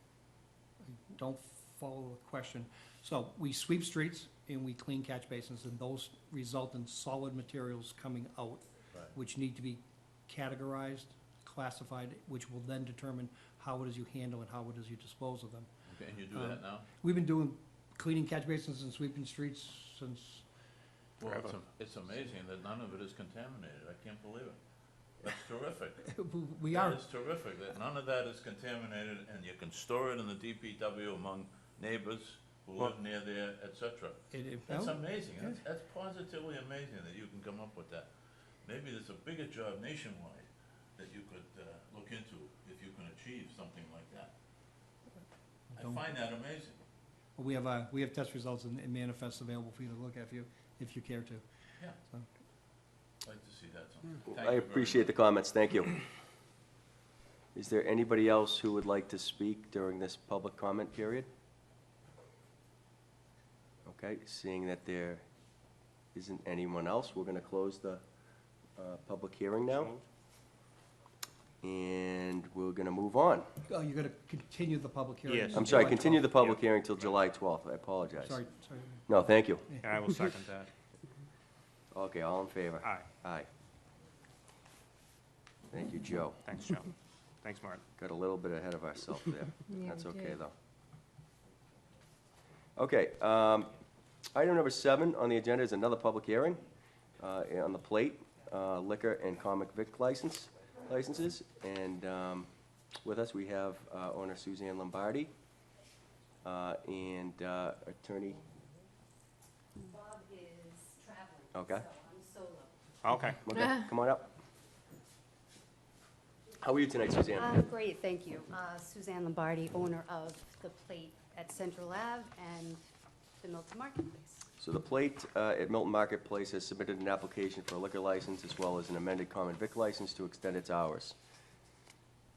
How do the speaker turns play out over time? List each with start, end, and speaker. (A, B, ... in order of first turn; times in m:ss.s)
0:00.8-0:15.7 A
0:15.9-0:16.9 B
0:16.3-0:20.4 A
0:21.2-0:24.6 B
0:21.2-0:21.6 C
0:25.2-0:26.0 B
0:26.0-0:27.0 A
0:26.7-0:38.1 B
0:34.3-0:35.6 A
0:38.6-0:44.3 B
0:45.7-0:46.8 B
0:45.8-0:46.0 A
0:47.4-0:51.4 A
0:53.2-0:55.2 B
0:54.3-0:56.0 D
0:57.5-1:01.3 D
1:03.8-1:05.2 D
1:06.1-1:08.0 D
1:08.8-1:09.9 D
1:09.8-1:10.0 C
1:11.6-1:13.5 D
1:13.7-1:16.2 A
1:15.3-1:17.1 C
1:15.5-1:18.4 D
1:18.2-1:19.1 A
1:19.1-1:19.7 D
1:19.8-1:20.7 C
1:21.9-1:23.5 D
1:22.8-1:23.1 C
1:25.7-1:26.4 D
1:26.4-1:27.8 C
1:28.0-1:30.5 D
1:32.8-1:33.7 D
1:34.3-1:36.6 D
1:37.2-1:42.5 D
1:43.0-1:45.3 D
1:46.4-1:48.4 D
1:49.8-1:52.7 E
1:51.5-1:51.8 D
1:53.0-1:53.4 C
1:53.4-1:54.3 D
1:56.6-1:57.6 D
1:57.4-2:02.8 E
2:03.4-2:04.4 E
2:04.6-2:11.2 D